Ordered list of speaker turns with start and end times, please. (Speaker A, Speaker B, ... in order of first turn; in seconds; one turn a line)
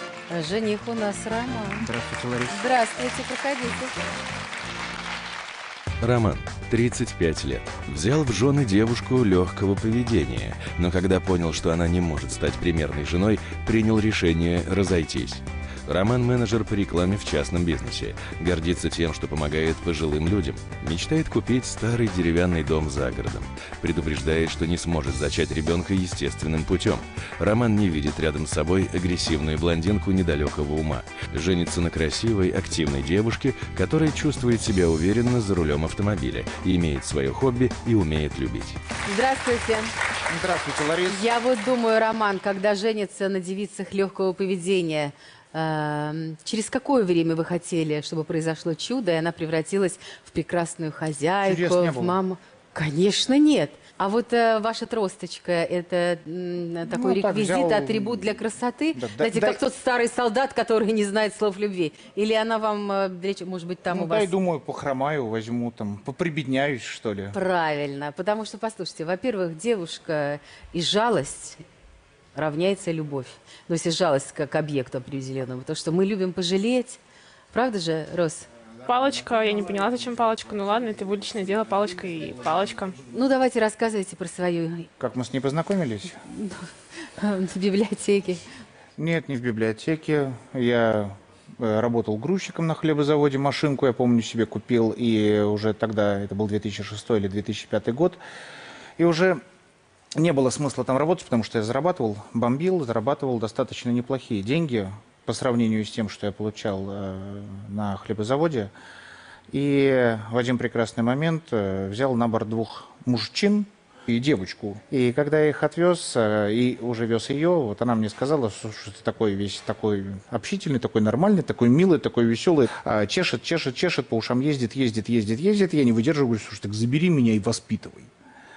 Speaker A: 0.3-1.9
Speaker B: 1.8-2.6
Speaker A: 2.5-4.0
Speaker C: 6.0-38.8
Speaker A: 39.1-39.9
Speaker B: 40.3-41.2
Speaker A: 41.1-64.3
Speaker B: 51.5-52.2
Speaker B: 56.9-58.4
Speaker B: 59.0-59.6
Speaker B: 63.9-67.3
Speaker A: 67.3-71.6
Speaker A: 72.4-77.0
Speaker A: 77.5-78.5
Speaker D: 78.8-83.0
Speaker A: 83.1-84.9
Speaker B: 85.0-86.2
Speaker A: 86.3-88.4
Speaker B: 89.0-98.2
Speaker B: 99.0-99.4
Speaker B: 100.2-108.7
Speaker B: 109.5-128.1